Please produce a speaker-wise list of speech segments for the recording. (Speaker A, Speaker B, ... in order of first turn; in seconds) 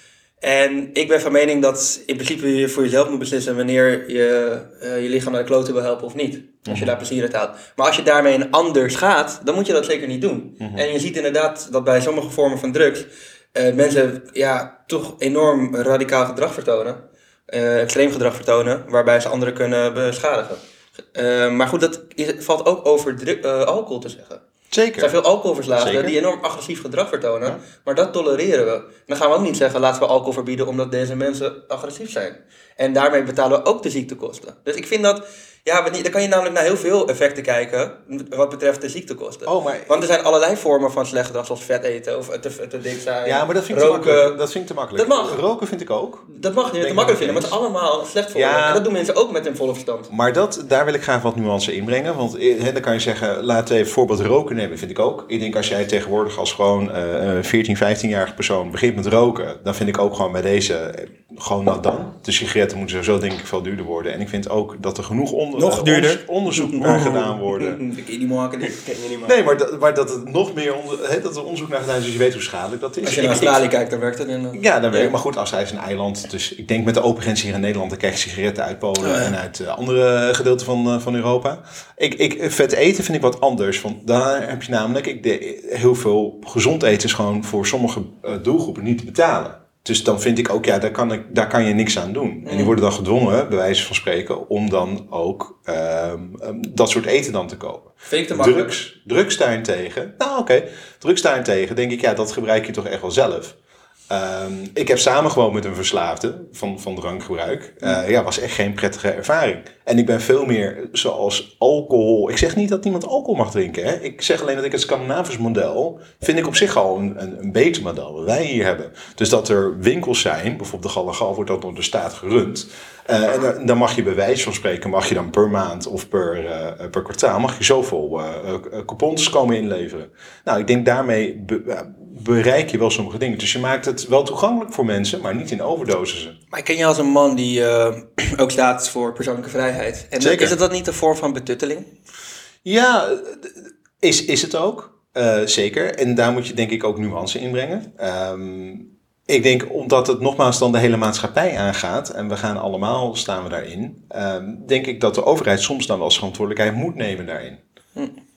Speaker A: 0.4-20.6, 21.1-24.4, 25.0-44.4, 44.9-45.4, 46.3-50.1, 66.5-68.8, 73.0-75.1, 79.0-79.3, 92.4-92.7, 98.1-98.7, 136.5-141.9
Speaker B: 6.7-7.0, 10.6-10.8, 24.7-25.1, 25.8-26.2, 39.5-40.0, 43.2-47.6, 48.3-48.8, 50.1-67.8, 69.2-73.6, 74.5-103.5, 104.1-136.3, 140.2-140.6, 142.6-157.6
Speaker C: 65.5-66.2, 66.8-67.2, 68.6-69.4